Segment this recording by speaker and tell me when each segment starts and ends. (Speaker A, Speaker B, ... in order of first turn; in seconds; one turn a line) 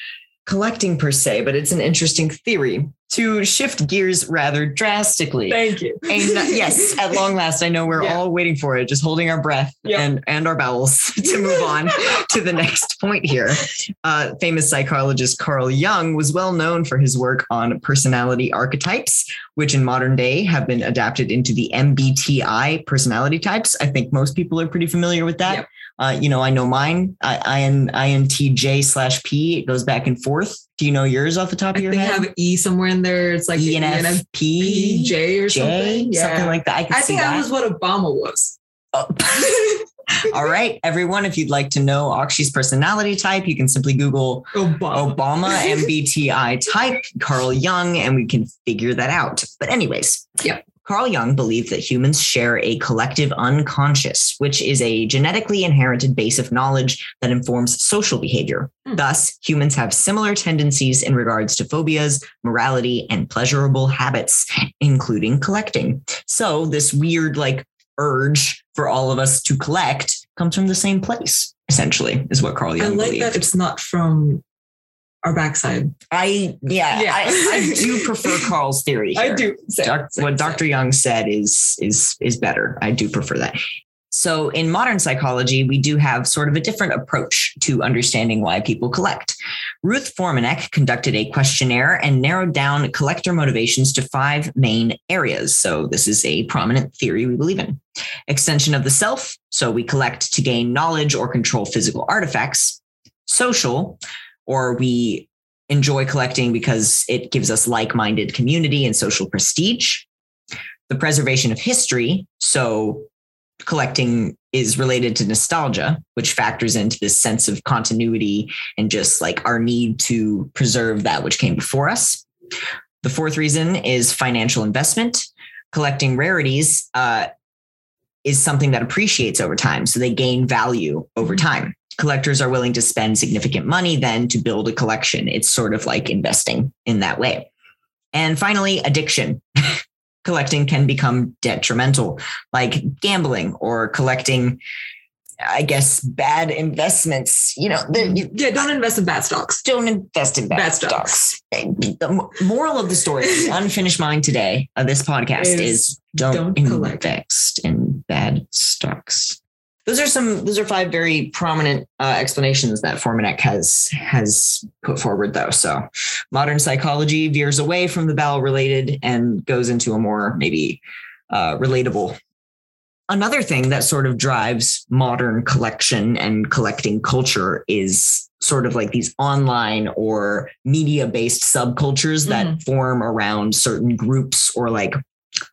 Speaker A: 0.5-32.3
Speaker B: 5.5-7.2
Speaker B: 11.4-12.1
Speaker B: 31.7-38.6
Speaker A: 33.5-37.5
Speaker A: 38.9-39.7
Speaker B: 39.3-39.8
Speaker A: 40.2-73.4
Speaker B: 44.5-45.9
Speaker B: 72.8-74.4
Speaker B: 75.2-75.9
Speaker A: 76.1-83.6
Speaker B: 76.9-78.5
Speaker B: 79.1-80.6
Speaker A: 84.1-110.1
Speaker A: 110.9-113.1
Speaker A: 113.6-122.2
Speaker A: 123.0-127.3
Speaker A: 128.2-137.5
Speaker A: 138.1-144.6
Speaker A: 145.4-148.6
Speaker B: 148.1-149.6
Speaker A: 149.6-172.2
Speaker B: 150.5-151.3
Speaker B: 155.4-157.0
Speaker A: 173.1-185.0
Speaker B: 182.2-182.6